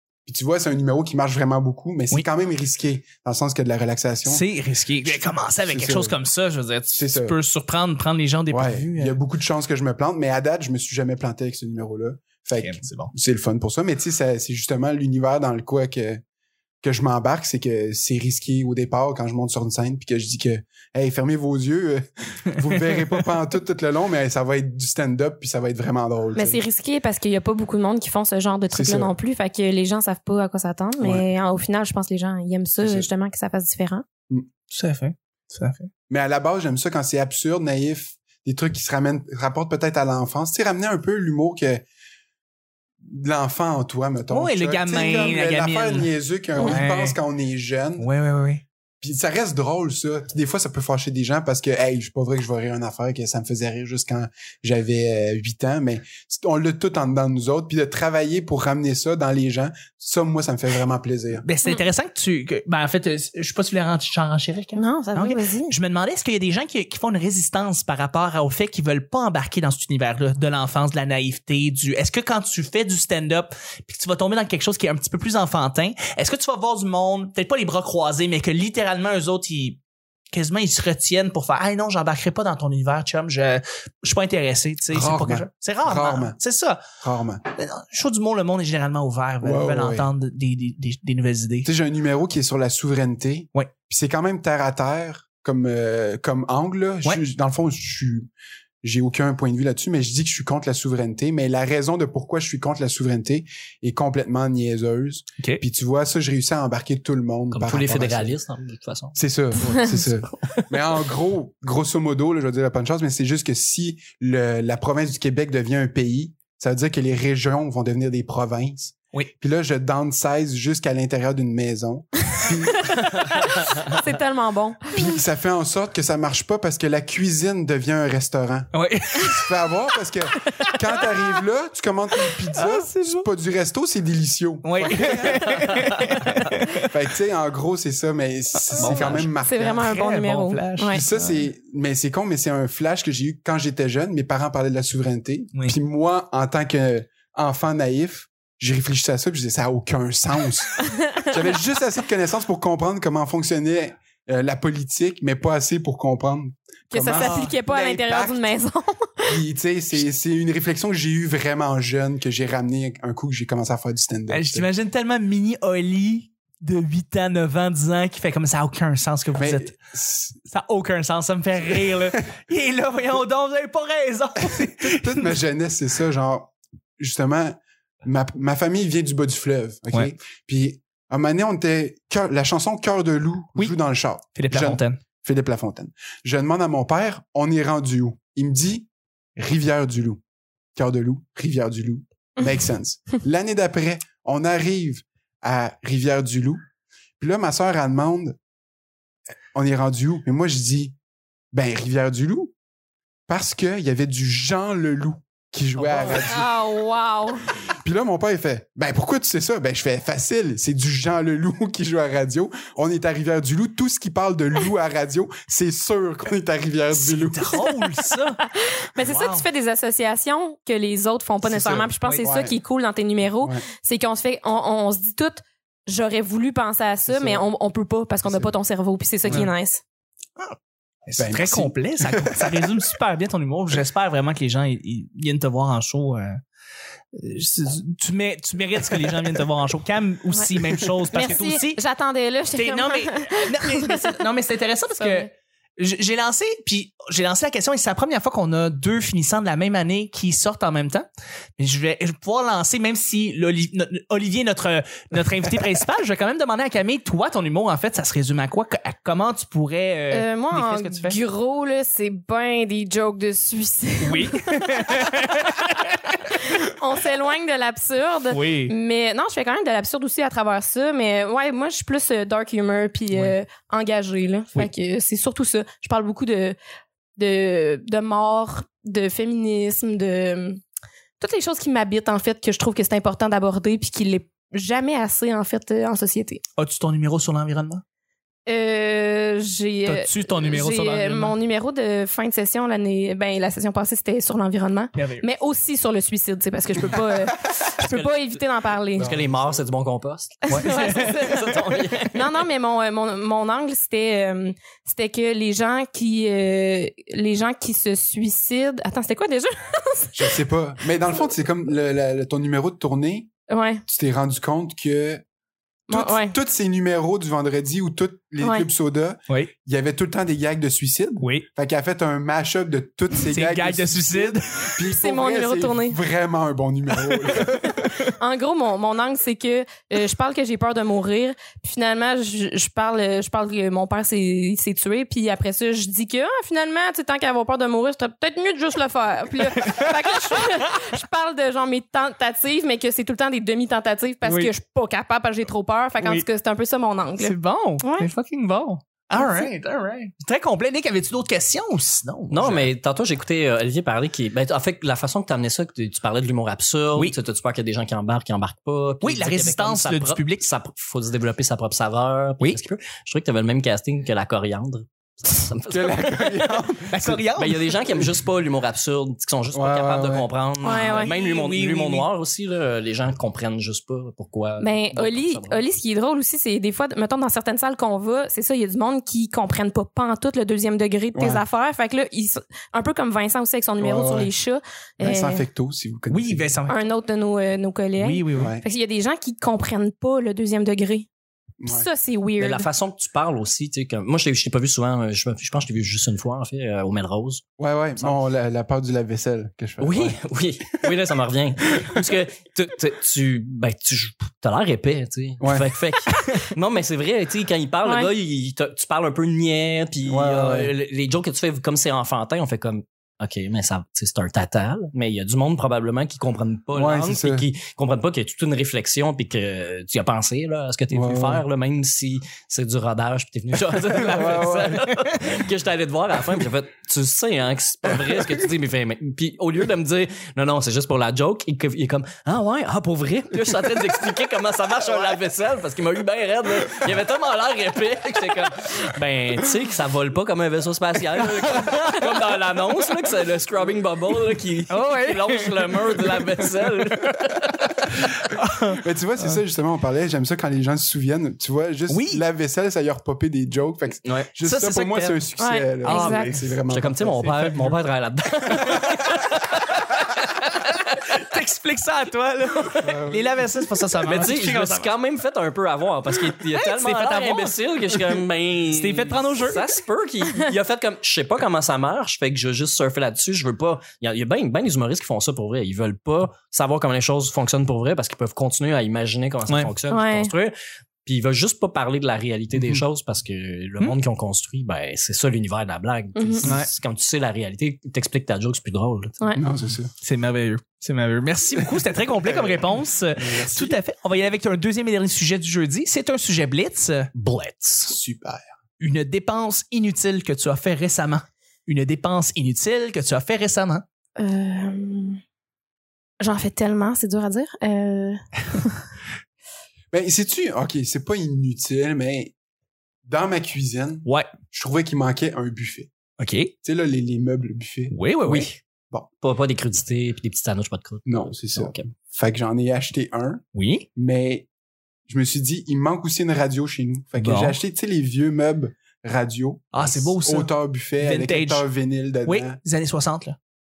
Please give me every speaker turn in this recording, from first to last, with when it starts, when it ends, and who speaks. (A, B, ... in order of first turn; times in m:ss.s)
0:00.2-0:04.5 A
0:04.2-0:09.2 B
0:05.0-0:06.2 A
0:06.9-0:07.4 A
0:08.5-0:16.2 A
0:12.5-0:13.1 B
0:16.8-0:26.6 A
0:26.3-0:34.0 C
0:28.7-0:29.1 A
0:31.0-0:31.3 A
0:32.8-0:33.1 A
0:34.7-0:35.9 B
0:36.1-0:41.8 A
0:43.0-0:48.1 A
0:44.3-0:47.2 B
0:48.0-0:48.6 B
0:49.0-1:01.4 A
1:01.4-1:19.8 B
1:04.8-1:05.7 C
1:20.3-1:26.8 B
1:24.9-1:26.4 A
1:27.0-1:27.4 A
1:27.5-1:31.7 B
1:29.4-1:30.1 A
1:31.6-1:38.3 A
1:38.8-1:48.4 A
1:47.5-1:50.5 D
1:49.1-2:02.9 A
2:03.9-2:05.0 C
2:04.9-2:08.7 A
2:08.7-2:09.5 B
2:09.2-2:15.6 A
2:12.6-2:13.2 B
2:14.6-2:16.7 B
2:16.8-2:19.8 A
2:18.7-2:21.4 B
2:18.8-2:21.0 C
2:20.9-2:38.5 A
2:36.9-2:39.4 C
2:37.1-2:37.6 B
2:39.3-2:44.7 A
2:44.3-2:49.8 B
2:49.3-2:50.4 A
2:50.4-2:55.4 B
2:54.4-3:10.2 A
3:04.3-3:05.0 B
3:10.7-3:16.6 A
3:17.2-3:18.4 A
3:19.5-3:21.0 A
3:21.5-3:22.5 A
3:23.3-3:26.5 A
3:25.8-3:26.1 D
3:26.2-3:27.4 C
3:27.8-3:37.5 A
3:36.9-3:38.4 B
3:38.9-3:49.8 C
3:39.0-3:39.4 B
3:41.4-3:42.6 A
3:43.4-3:43.6 A
3:47.0-3:47.5 A
3:48.2-3:48.5 A
3:50.4-3:56.4 B
3:51.2-3:52.6 A
3:57.1-4:01.8 B
4:01.1-4:04.1 C
4:02.5-4:11.0 B
4:05.0-4:05.3 C
4:11.6-4:21.2 B
4:20.1-4:25.2 C
4:24.0-4:26.2 B
4:26.3-4:36.6 C
4:28.3-4:28.7 B
4:37.2-4:40.6 C
4:41.2-4:46.4 C
4:46.6-4:47.8 B
4:48.4-4:59.1 C
4:49.8-4:51.4 B
4:54.9-4:55.2 B
4:57.8-4:58.3 D
4:58.9-5:02.3 D
4:59.0-4:59.5 A
5:00.5-5:01.8 B
5:00.5-5:10.2 C
5:10.1-5:13.3 A
5:13.5-5:13.8 C
5:13.9-5:15.2 A
5:15.9-5:16.3 C
5:15.9-5:28.0 A
5:18.4-5:18.7 C
5:21.2-5:21.5 B
5:23.2-5:24.8 B
5:24.9-5:26.0 C
5:28.1-5:48.1 C
5:39.5-5:40.4 B
5:44.2-5:44.5 B
5:46.0-5:46.2 B
5:47.2-5:52.7 B
5:49.2-5:49.5 C
5:52.3-6:06.5 D
5:59.0-6:00.5 B
6:05.7-6:07.2 A
6:06.9-6:07.8 B
6:07.4-6:15.6 D
6:09.5-6:10.3 A
6:10.6-6:11.1 C
6:10.8-6:12.1 B
6:14.6-6:25.4 C
6:21.1-6:21.4 A
6:23.8-6:24.3 A
6:25.0-6:26.6 A
6:26.1-6:26.8 B
6:26.7-6:31.1 C
6:28.0-6:28.5 B
6:28.3-6:28.6 A
6:31.6-6:31.9 A
6:31.6-6:32.7 C
6:32.4-6:37.4 D
6:37.6-6:40.2 A
6:39.8-7:28.1 D
6:45.4-6:45.7 A
6:47.8-6:48.1 C
6:50.1-6:50.7 A
6:56.7-6:57.5 A
7:00.9-7:01.4 A
7:04.0-7:04.8 A
7:24.7-7:27.2 B
7:28.3-7:29.4 B
7:28.8-7:37.8 A
7:31.9-7:32.2 B
7:34.0-7:34.3 D
7:34.4-7:35.2 B
7:35.4-7:36.4 C
7:35.8-7:36.6 B
7:35.9-7:39.4 D
7:38.4-7:38.9 B
7:40.9-7:44.9 B
7:42.8-7:43.3 A
7:44.0-8:00.5 D
7:46.1-7:48.2 B
7:48.7-7:49.7 B
7:59.9-8:00.3 C
8:01.0-8:09.2 D
8:02.5-8:02.8 A
8:06.1-8:06.5 C
8:06.4-8:06.7 B
8:09.4-8:09.9 A
8:10.0-8:17.1 B
8:12.2-8:13.8 A
8:17.2-8:17.9 D
8:17.8-8:18.4 A
8:18.8-8:23.8 B
8:24.2-8:25.2 C
8:26.2-8:28.7 C
8:29.9-8:32.3 A
8:33.0-8:35.9 A
8:34.0-8:34.3 B
8:36.2-8:36.5 B
8:36.6-8:38.0 A
8:37.9-8:38.5 B
8:38.3-8:38.6 D
8:39.2-8:41.8 D
8:41.0-8:43.4 A
8:43.5-8:43.8 B
8:44.0-8:44.5 A
8:45.1-8:52.6 A
8:47.2-8:47.6 B
8:49.7-8:51.7 B
8:52.2-8:53.4 B